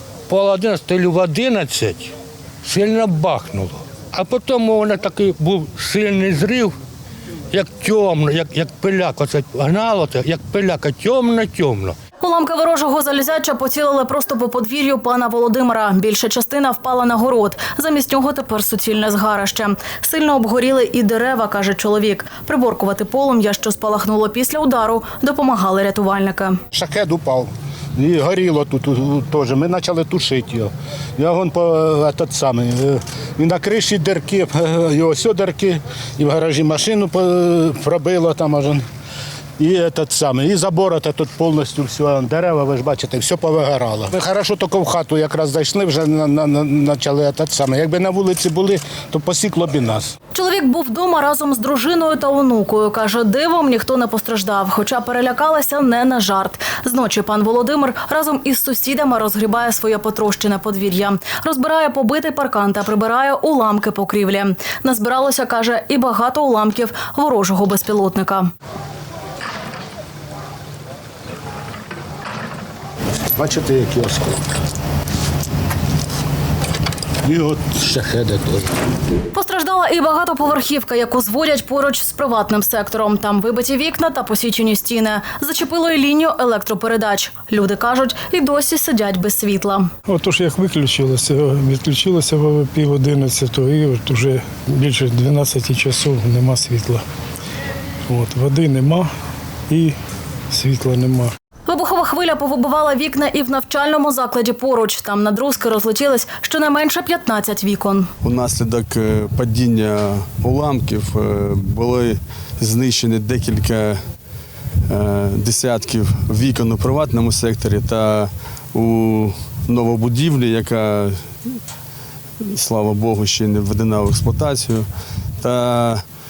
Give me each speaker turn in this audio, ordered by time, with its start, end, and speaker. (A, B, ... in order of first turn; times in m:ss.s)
0:00.3-0:02.1 A
0:02.6-0:06.7 A
0:07.5-0:11.9 A
0:12.2-0:26.6 B
0:26.7-0:38.8 C
0:39.6-0:50.1 C
0:50.3-1:08.5 B
1:13.4-1:14.5 C
1:17.2-1:18.7 C
1:19.3-1:29.9 B
1:30.1-1:37.0 D
1:38.1-1:39.1 D
1:39.7-1:40.0 D
1:40.5-1:41.3 D
1:41.7-1:48.1 B
1:48.2-1:54.0 E
1:54.9-2:01.6 E
2:02.4-2:04.9 E
2:05.4-2:06.0 E